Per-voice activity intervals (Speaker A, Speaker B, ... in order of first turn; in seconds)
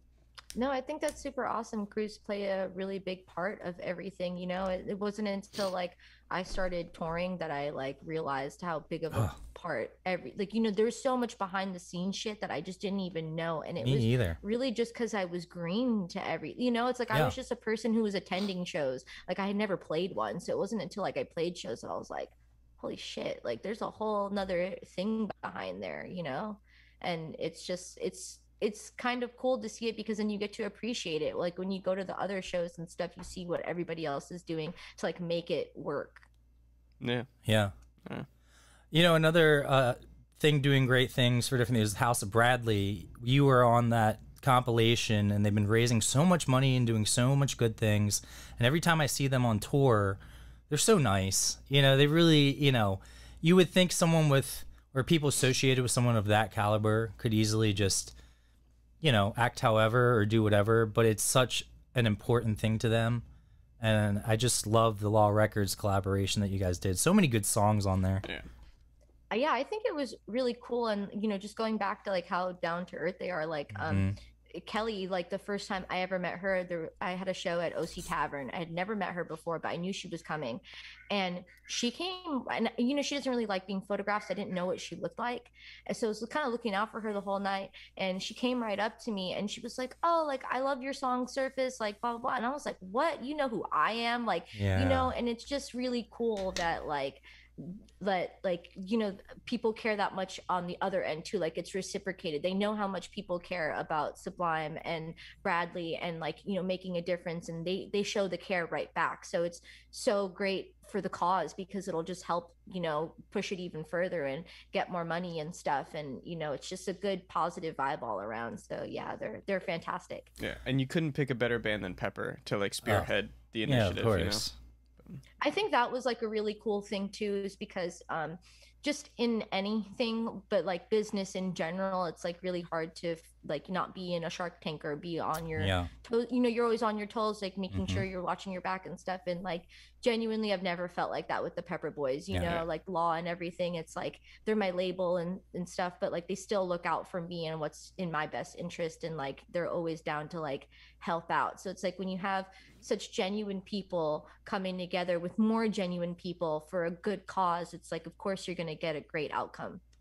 Speaker A: 0.6-36.3, 69.3-120.3, 125.4-159.8
Speaker B: 13.8-14.4, 37.5-37.7, 38.9-58.2, 59.0-63.2, 63.8-68.2, 73.7-74.2, 94.5-95.1, 123.6-124.5, 135.6-135.9, 137.7-138.1
Speaker C: 37.0-37.3, 120.4-124.5, 142.4-142.7